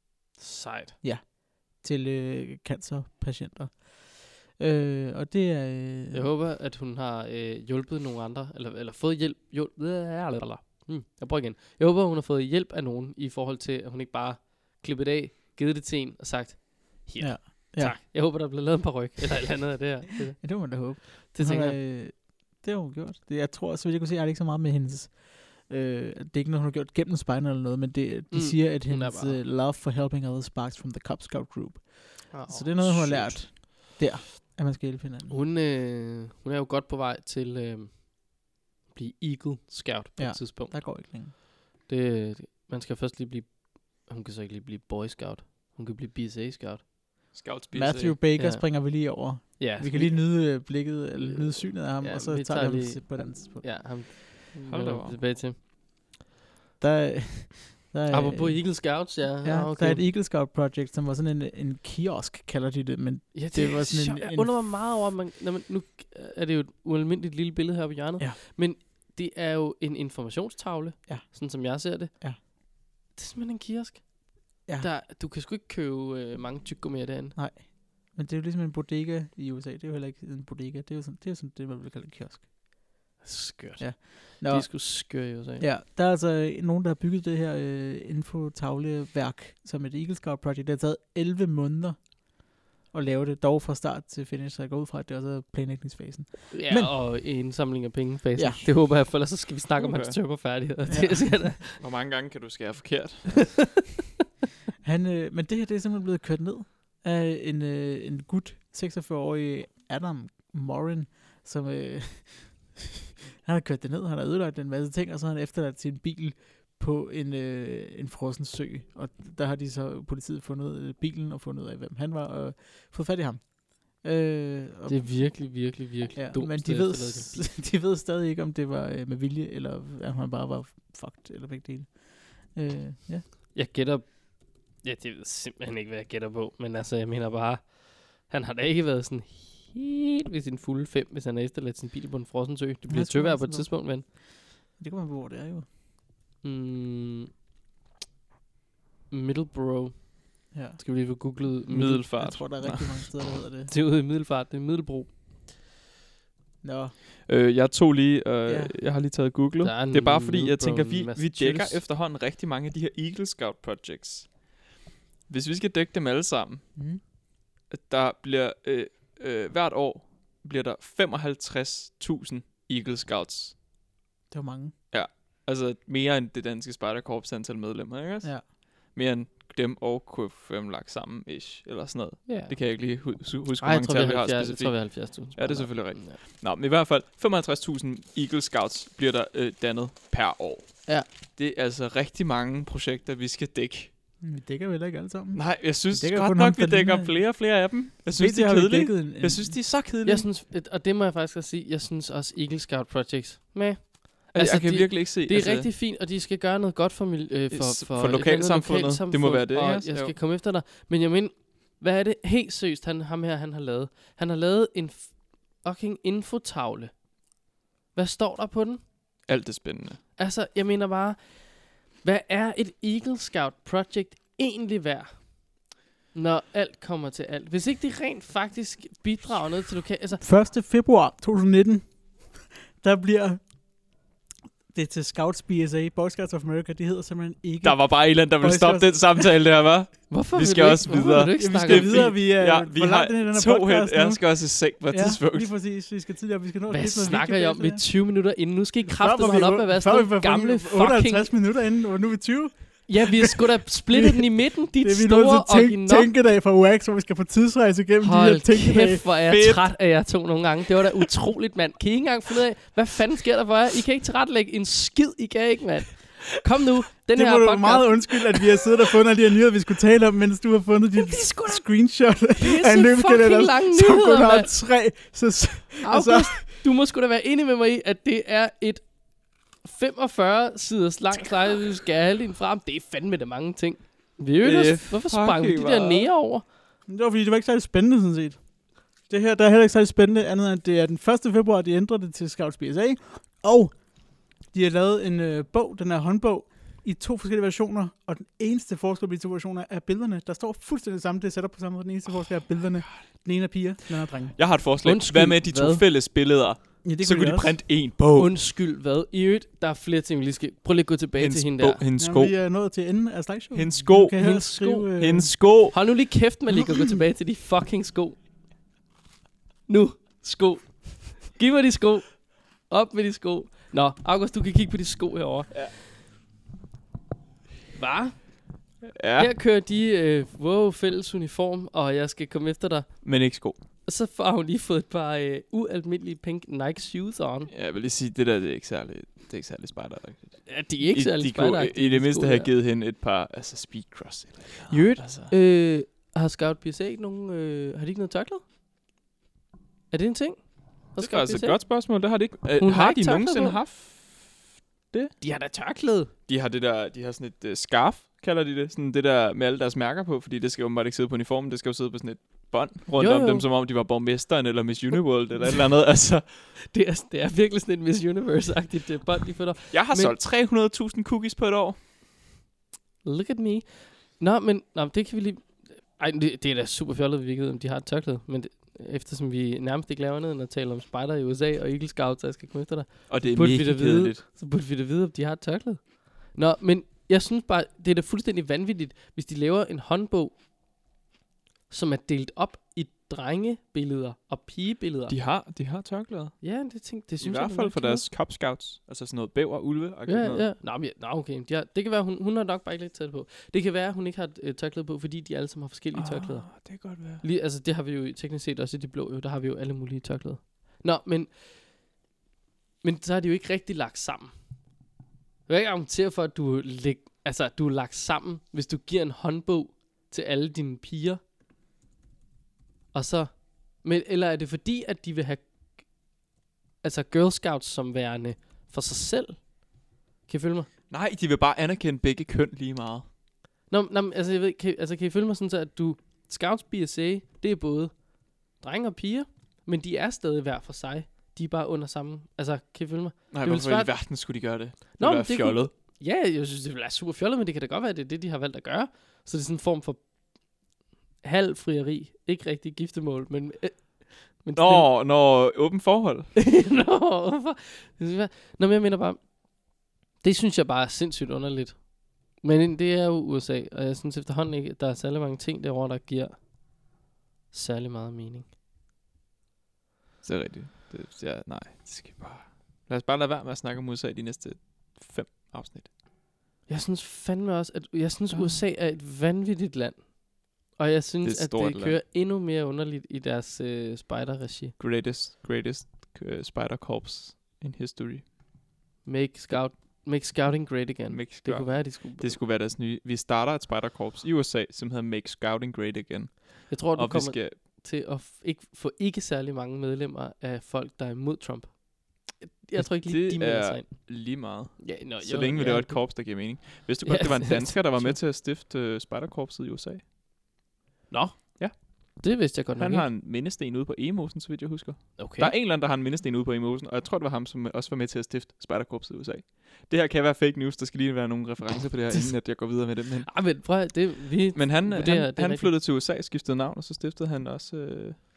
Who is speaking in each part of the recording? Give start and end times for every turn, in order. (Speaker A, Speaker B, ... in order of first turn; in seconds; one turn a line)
Speaker A: 0.4-1.0
Speaker B: 1.0-6.3
Speaker A: 6.1-21.8
Speaker B: 17.2-18.0
Speaker B: 20.4-35.4
Speaker A: 28.3-29.4
Speaker A: 32.3-33.5
Speaker A: 35.3-41.1
Speaker B: 40.2-41.3
Speaker A: 41.9-46.8
Speaker C: 47.3-48.2
Speaker B: 47.7-53.7
Speaker A: 48.4-55.6
Speaker C: 54.5-55.2
Speaker B: 56.8-64.5
Speaker A: 58.1-60.0
Speaker A: 63.3-72.5
Speaker B: 71.1-72.4
Speaker A: 73.1-77.4
Speaker B: 77.3-82.5
Speaker A: 83.2-85.7
Speaker B: 83.8-97.0
Speaker A: 96.5-101.8
Speaker B: 98.4-98.6
Speaker C: 99.8-100.4
Speaker B: 100.9-101.5
Speaker C: 101.8-103.8
Speaker B: 104.8-133.2
Speaker A: 124.9-127.5
Speaker A: 133.5-144.1
Speaker B: 142.9-144.2
Speaker B: 144.8-145.7
Speaker A: 146.4-147.3
Speaker A: 149.1-150.2
Speaker B: 150.5-150.8
Speaker A: 150.8-152.1
Speaker B: 151.3-153.7
Speaker C: 151.7-153.1
Speaker A: 153.7-155.2
Speaker B: 156.6-156.9
Speaker C: 157.3-164.4
Speaker B: 158.5-158.7
Speaker A: 159.6-161.8
Speaker C: 165.3-166.6
Speaker B: 166.8-167.0
Speaker C: 167.7-173.6
Speaker B: 174.3-174.7
Speaker C: 174.9-193.9
Speaker A: 182.3-182.6
Speaker A: 183.6-186.2
Speaker B: 194.2-197.2
Speaker C: 195.3-200.3
Speaker B: 198.1-199.6
Speaker A: 200.0-217.0
Speaker C: 204.3-205.7
Speaker C: 207.5-210.2
Speaker A: 217.9-218.8
Speaker C: 219.3-220.0
Speaker A: 220.2-225.6
Speaker A: 226.1-230.2
Speaker B: 230.2-233.6
Speaker B: 234.7-239.3
Speaker C: 237.6-245.5
Speaker A: 240.1-242.1
Speaker B: 241.3-247.8
Speaker A: 246.7-251.3
Speaker B: 248.8-259.1
Speaker A: 252.9-256.1
Speaker A: 258.0-268.5
Speaker C: 259.3-259.7
Speaker B: 267.1-276.5
Speaker A: 271.0-271.6
Speaker A: 272.4-274.5
Speaker A: 275.8-278.9
Speaker A: 279.6-286.5
Speaker C: 284.4-286.1
Speaker B: 286.9-288.4
Speaker B: 289.0-304.4
Speaker C: 304.4-308.4
Speaker A: 304.8-305.8
Speaker B: 306.8-307.6
Speaker A: 308.1-311.8
Speaker C: 311.2-312.3
Speaker B: 312.0-315.3
Speaker C: 313.5-316.0
Speaker A: 314.2-314.9
Speaker A: 315.7-318.2
Speaker B: 316.5-316.9
Speaker A: 319.7-325.6
Speaker A: 327.8-328.4
Speaker C: 329.0-329.3
Speaker A: 329.2-333.1
Speaker C: 333.0-333.6
Speaker A: 333.9-337.5
Speaker C: 337.5-345.3
Speaker A: 340.5-342.5
Speaker A: 344.7-348.4
Speaker A: 349.9-351.8
Speaker C: 351.0-354.4
Speaker A: 352.6-353.6
Speaker A: 355.2-356.1
Speaker C: 356.3-366.5
Speaker A: 363.0-363.5
Speaker A: 366.7-370.2
Speaker C: 369.7-371.8
Speaker A: 373.0-390.4
Speaker C: 383.1-384.2
Speaker A: 391.7-395.1
Speaker C: 395.1-396.4
Speaker A: 396.4-398.1
Speaker C: 397.2-400.5
Speaker A: 400.1-411.5
Speaker C: 405.9-407.2
Speaker A: 412.8-414.3
Speaker A: 415.5-421.2
Speaker A: 422.9-425.9
Speaker A: 426.8-429.6
Speaker A: 430.3-430.7
Speaker C: 430.9-433.1
Speaker A: 433.7-437.9
Speaker A: 438.6-444.0
Speaker C: 443.3-445.7
Speaker A: 445.0-450.0
Speaker A: 451.2-454.9
Speaker C: 454.6-456.3
Speaker A: 456.4-459.3
Speaker A: 460.2-466.4
Speaker A: 467.5-468.5
Speaker C: 470.2-475.9
Speaker A: 476.7-484.8
Speaker C: 478.3-478.6
Speaker C: 481.2-482.0
Speaker C: 484.8-488.3
Speaker A: 489.0-492.4
Speaker C: 491.1-497.6
Speaker A: 496.7-504.2
Speaker C: 502.8-510.0
Speaker A: 504.7-506.4
Speaker A: 507.0-508.2
Speaker A: 511.1-513.1
Speaker C: 511.6-512.2
Speaker C: 512.8-523.5
Speaker A: 515.2-515.5
Speaker A: 523.3-525.7
Speaker C: 524.5-528.2